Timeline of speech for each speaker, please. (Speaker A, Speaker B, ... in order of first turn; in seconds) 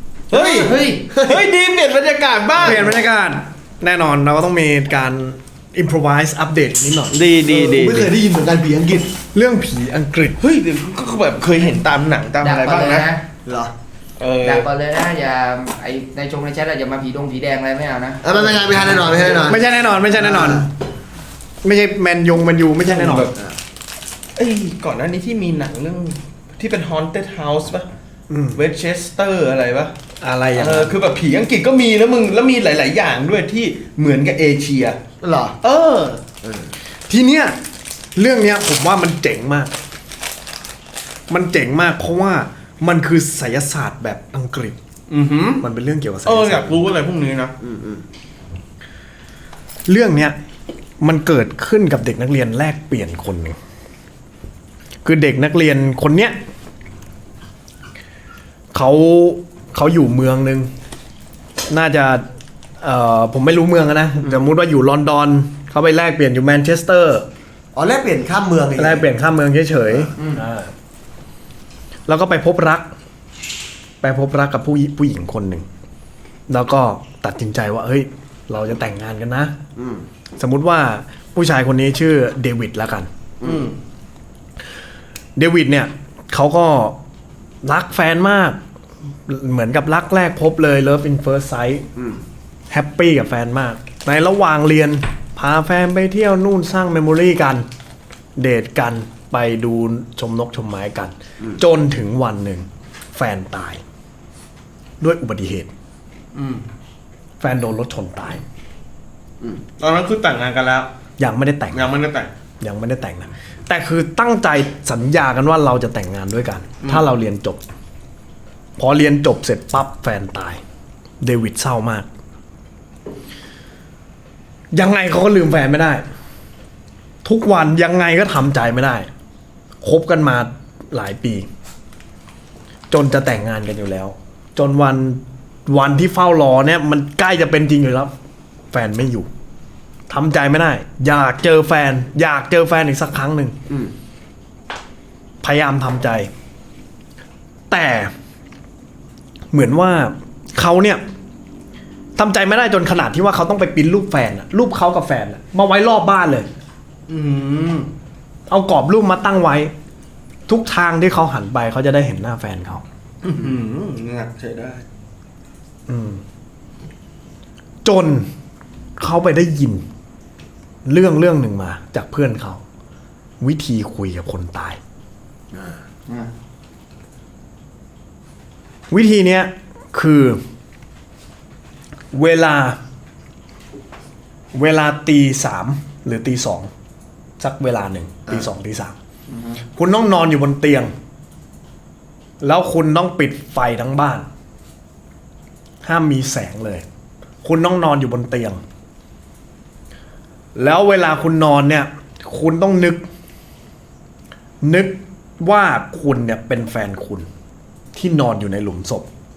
Speaker A: 0.3-2.9, 7.1-8.1, 10.4-13.1, 14.2-14.7, 22.8-23.4, 24.4-27.9, 28.5-29.9, 30.5-35.0, 35.6-36.2, 45.1-45.6, 46.2-47.5, 83.4-83.8, 106.3-106.6, 109.8-110.9, 111.7-112.3, 157.1-157.9, 163.2-164.8
Speaker B: 0.3-1.1, 12.4-13.2, 14.4-19.1
Speaker C: 1.1-1.5, 7.5-9.1, 13.4-13.7, 18.2-20.6, 35.2-35.6, 36.4-36.7, 47.6-48.0, 67.7-69.0, 70.1-70.4, 79.8-80.0, 175.5-175.8
Speaker D: 2.6-7.2, 9.3-10.4, 19.4-20.7, 21.6-23.3, 28.3-28.6, 30.2-31.0, 37.1-37.6, 38.1-39.7, 41.3-44.8, 45.6-46.8, 49.9-50.4, 51.0-53.6, 55.0-56.4, 58.7-60.7, 61.7-62.2, 62.8-67.3, 68.8-70.7, 72.1-72.9, 74.0-75.7, 76.5-79.5, 80.4-83.1, 85.4-87.0, 87.6-88.6, 89.3-91.9, 92.7-97.7, 98.4-103.8, 105.0-105.7, 107.4-108.4, 111.2-111.9, 112.6-117.6, 118.8-120.6, 121.2-122.1, 124.7-126.0, 127.2-129.1, 129.8-131.5, 132.9-138.1, 138.7-139.3, 140.1-143.6, 145.4-146.3, 147.7-148.1, 149.5-151.0, 152.2-156.5, 158.5-159.7, 160.5-162.8, 165.9-166.2, 167.8-168.3, 169.0-169.8, 170.8-172.6, 173.4-174.8, 178.9-180.4, 182.1-182.8, 184.5-186.7, 187.4-189.0, 189.6-190.9, 192.4-194.3, 195.8-196.8, 197.4-198.6, 200.5-203.0, 204.6-207.3, 207.9-209.1